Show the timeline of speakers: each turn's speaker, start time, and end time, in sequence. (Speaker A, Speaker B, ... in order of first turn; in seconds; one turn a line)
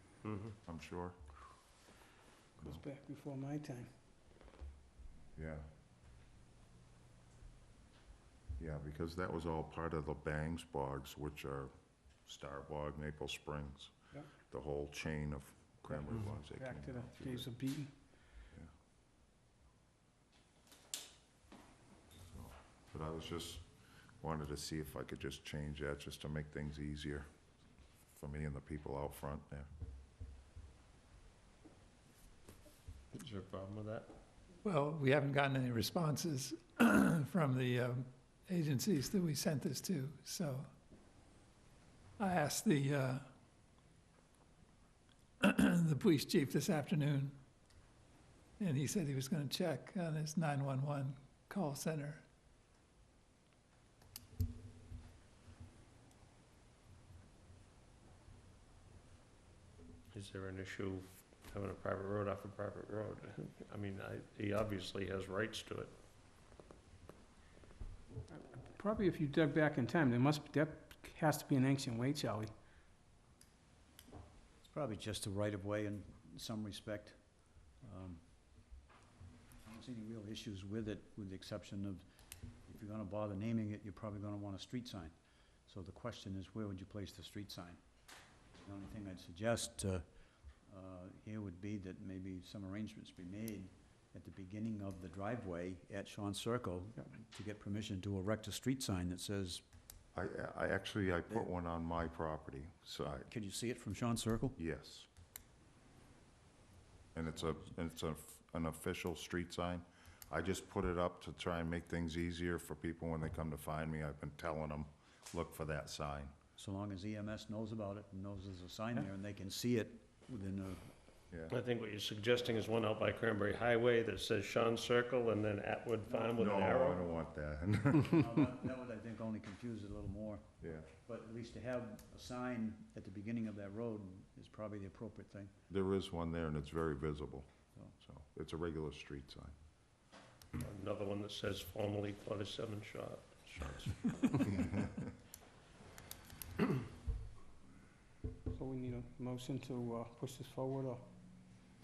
Speaker A: 0.2-0.5
Speaker B: 0.6-1.2
Speaker C: 2.6-3.9
Speaker B: 5.3-5.6
Speaker B: 8.6-11.7
Speaker B: 12.2-17.5
Speaker C: 15.9-17.9
Speaker B: 22.2-23.6
Speaker B: 24.2-27.3
Speaker B: 28.1-29.7
Speaker A: 33.1-34.1
Speaker D: 34.6-40.7
Speaker D: 42.2-43.2
Speaker D: 45.4-47.4
Speaker D: 48.6-52.2
Speaker A: 60.1-65.9
Speaker C: 68.3-72.5
Speaker E: 74.6-78.2
Speaker E: 79.6-82.0
Speaker E: 82.7-87.8
Speaker E: 88.6-99.6
Speaker B: 100.1-103.3
Speaker E: 103.3-104.6
Speaker B: 104.6-105.1
Speaker B: 107.1-116.3
Speaker E: 116.6-120.9
Speaker A: 121.5-127.0
Speaker E: 126.1-126.4
Speaker B: 126.4-128.5
Speaker E: 128.1-135.6
Speaker B: 130.6-130.9
Speaker B: 135.7-139.5
Speaker A: 140.6-144.8
Speaker C: 148.5-151.0